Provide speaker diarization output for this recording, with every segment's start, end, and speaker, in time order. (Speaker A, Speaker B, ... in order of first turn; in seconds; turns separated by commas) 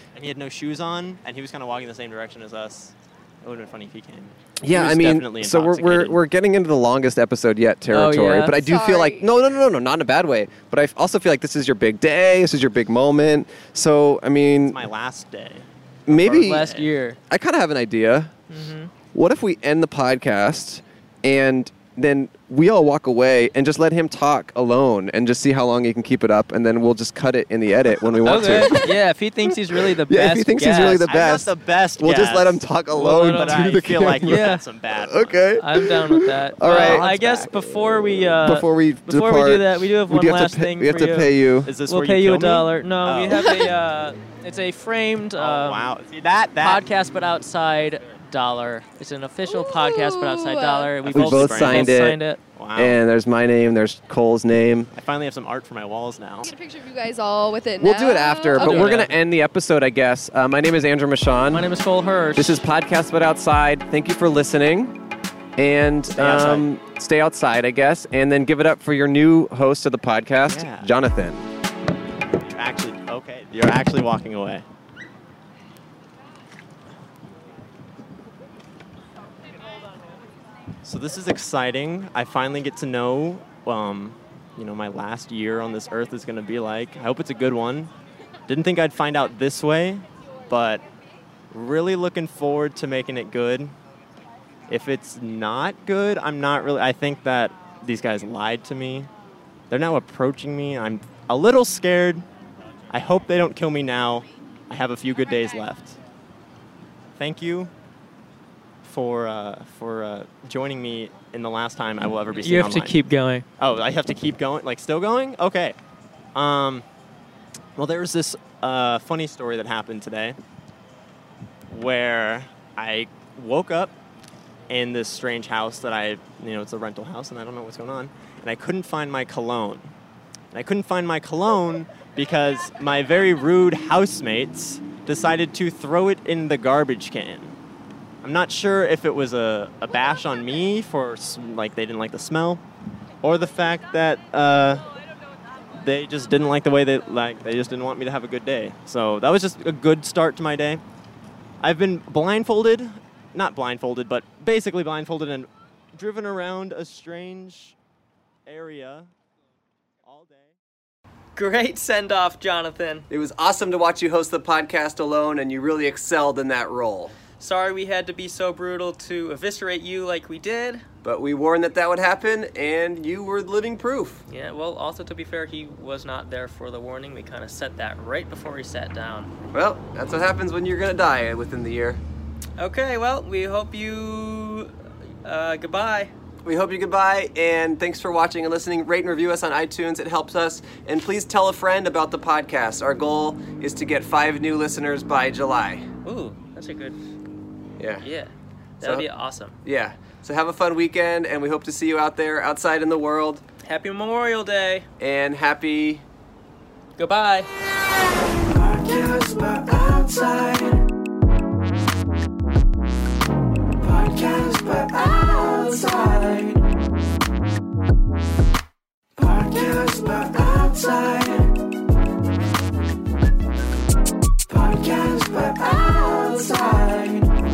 Speaker A: 0.1-6.2, Speaker B: 4.6-14.8, Speaker C: 7.9-8.6, Speaker D: 8.6-9.2, Speaker A: 14.7-16.9, Speaker B: 16.1-16.7, Speaker C: 16.1-17.2, Speaker B: 17.3-18.3, Speaker C: 18.5-18.9, Speaker B: 19.1-28.9, Speaker C: 28.2-31.1, Speaker B: 30.0-37.1, Speaker A: 31.1-35.4, Speaker C: 32.9-34.6, Speaker C: 35.6-45.9, Speaker A: 36.7-37.5, Speaker B: 38.4-41.7, Speaker A: 41.6-43.7, Speaker A: 45.4-46.8, Speaker C: 46.6-52.4, Speaker D: 49.5-50.9, Speaker A: 51.0-53.0, Speaker B: 51.1-52.2, Speaker B: 52.8-54.9, Speaker A: 54.9-56.5, Speaker D: 56.5-58.8, Speaker B: 57.8-61.7, Speaker C: 58.5-59.2, Speaker C: 61.5-62.6, Speaker B: 62.4-65.0, Speaker B: 65.6-71.5, Speaker A: 66.1-66.7, Speaker A: 70.5-70.9, Speaker A: 72.4-74.6, Speaker A: 80.8-87.9, Speaker A: 88.5-90.8, Speaker A: 91.5-93.8, Speaker A: 94.7-99.1, Speaker A: 99.7-102.2, Speaker A: 102.9-106.0, Speaker A: 107.2-107.7, Speaker A: 108.8-113.0, Speaker C: 112.4-113.5, Speaker A: 113.6-115.8, Speaker A: 116.3-116.9, Speaker A: 117.8-120.4, Speaker A: 121.7-124.0, Speaker A: 124.7-129.9, Speaker A: 130.5-137.6, Speaker A: 138.2-142.6, Speaker A: 143.2-144.8, Speaker A: 145.7-150.8, Speaker A: 151.6-157.8, Speaker A: 158.5-159.1, Speaker A: 160.0-160.6, Speaker C: 161.4-163.1, Speaker B: 163.1-167.2, Speaker C: 167.4-170.9, Speaker B: 171.0-174.2, Speaker C: 174.3-179.3, Speaker B: 179.5-182.0, Speaker C: 182.6-184.7, Speaker C: 185.2-186.1, Speaker B: 186.4-195.9, Speaker C: 196.0-197.0, Speaker B: 197.8-198.1, Speaker C: 198.0-199.6, Speaker B: 198.8-199.1, Speaker B: 199.6-203.4, Speaker C: 203.6-204.9, Speaker B: 205.0-206.0, Speaker C: 207.0-207.5, Speaker C: 208.8-209.2, Speaker B: 209.2-209.7, Speaker C: 209.9-210.6, Speaker C: 214.1-216.6, Speaker C: 219.2-220.1, Speaker C: 225.9-226.6